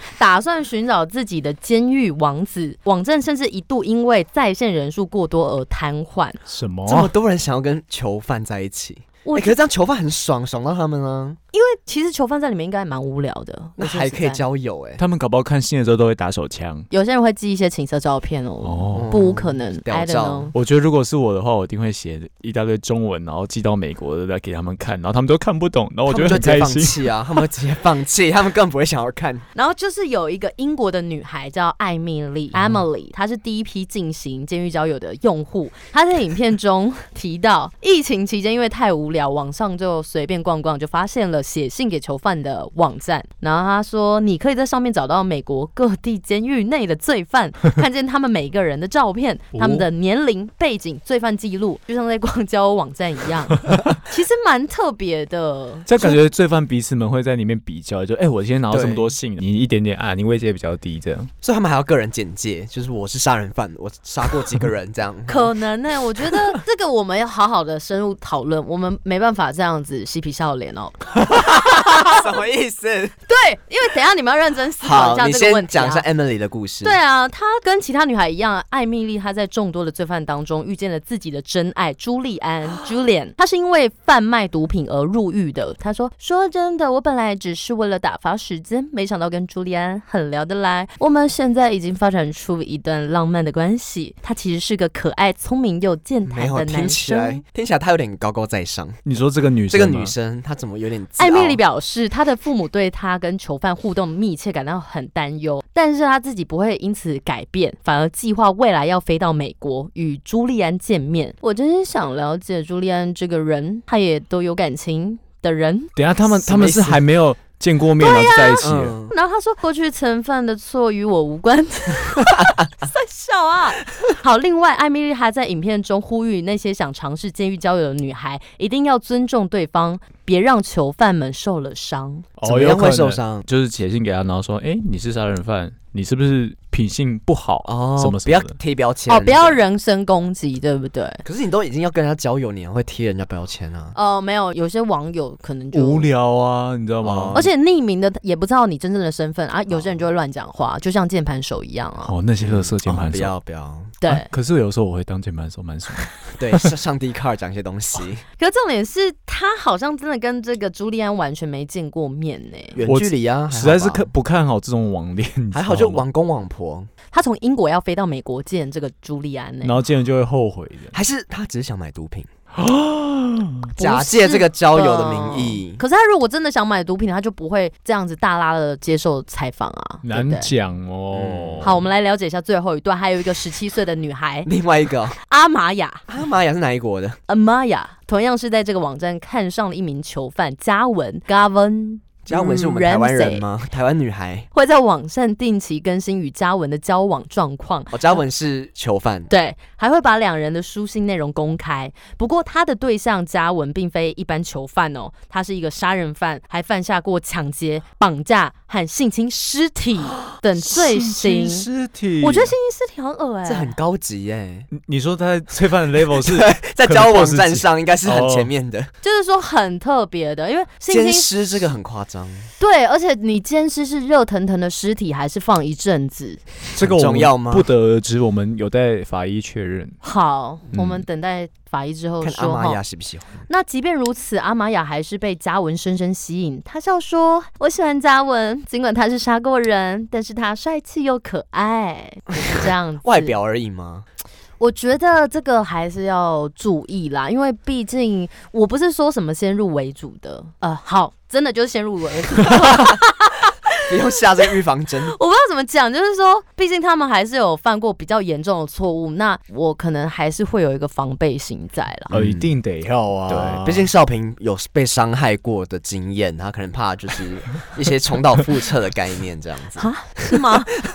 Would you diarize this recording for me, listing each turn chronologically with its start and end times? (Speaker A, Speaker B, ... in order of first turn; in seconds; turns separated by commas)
Speaker A: 0.1-6.4, Speaker B: 6.5-7.1, Speaker C: 6.9-11.4, Speaker A: 9.2-9.6, Speaker A: 11.5-14.4, Speaker C: 13.8-15.0, Speaker B: 15.0-16.9, Speaker A: 16.9-20.5, Speaker B: 18.6-19.1, Speaker C: 18.9-20.5, Speaker B: 20.5-27.1, Speaker C: 26.1-29.4, Speaker A: 29.6-56.2, Speaker B: 49.5-49.9, Speaker B: 55.9-61.3, Speaker C: 58.7-59.1, Speaker C: 61.4-65.5, Speaker A: 65.3-72.2, Speaker C: 71.7-73.1, Speaker A: 73.3-76.0, Speaker C: 74.8-77.0, Speaker A: 76.8-97.4, Speaker C: 96.3-99.0, Speaker B: 99.0-100.1, Speaker C: 99.7-101.6, Speaker A: 101.2-115.9, Speaker B: 116.0-119.0, Speaker C: 116.3-117.0, Speaker A: 118.0-132.3, Speaker C: 118.6-119.1, Speaker B: 132.4-138.6, Speaker C: 132.4-133.4, Speaker C: 137.7-139.6, Speaker A: 139.1-141.2, Speaker C: 141.2-143.9, Speaker A: 143.9-146.1, Speaker B: 145.7-147.5, Speaker C: 147.0-147.5, Speaker A: 147.3-152.1, Speaker C: 149.7-150.0, Speaker B: 152.1-153.3, Speaker C: 152.4-153.9, Speaker A: 154.0-154.3, Speaker B: 154.1-156.7, Speaker C: 156.4-158.2, Speaker A: 158.4-162.8, Speaker C: 162.8-164.1, Speaker B: 162.8-166.0, Speaker C: 165.5-166.9, Speaker A: 167.1-169.8, Speaker B: 169.6-170.9, Speaker C: 170.9-172.3, Speaker B: 172.5-173.7, Speaker A: 173.8-180.5, Speaker C: 173.8-175.8, Speaker B: 180.0-181.8, Speaker C: 181.1-181.8, Speaker A: 181.6-184.5, Speaker C: 184.5-185.2, Speaker A: 185.2-186.1, Speaker C: 186.1-187.2, Speaker A: 187.3-193.4, Speaker C: 192.3-194.5, Speaker A: 194.5-198.2, Speaker C: 197.9-199.3, Speaker A: 199.3-211.7, Speaker B: 210.6-212.6, Speaker A: 212.2-213.7, Speaker C: 213.4-214.7, Speaker B: 214.7-218.5, Speaker C: 216.1-218.9, Speaker A: 219.0-221.6, Speaker C: 220.9-222.5, Speaker A: 222.6-226.4, Speaker B: 226.8-230.0, Speaker C: 226.8-227.7, Speaker A: 230.0-232.8, Speaker B: 230.7-231.0, Speaker C: 232.2-233.4, Speaker A: 233.5-243.3, Speaker C: 242.4-244.1, Speaker A: 244.6-254.5, Speaker C: 253.9-255.1, Speaker A: 255.0-262.1, Speaker C: 262.1-262.5, Speaker B: 262.1-263.9, Speaker C: 263.3-270.6, Speaker A: 269.8-270.8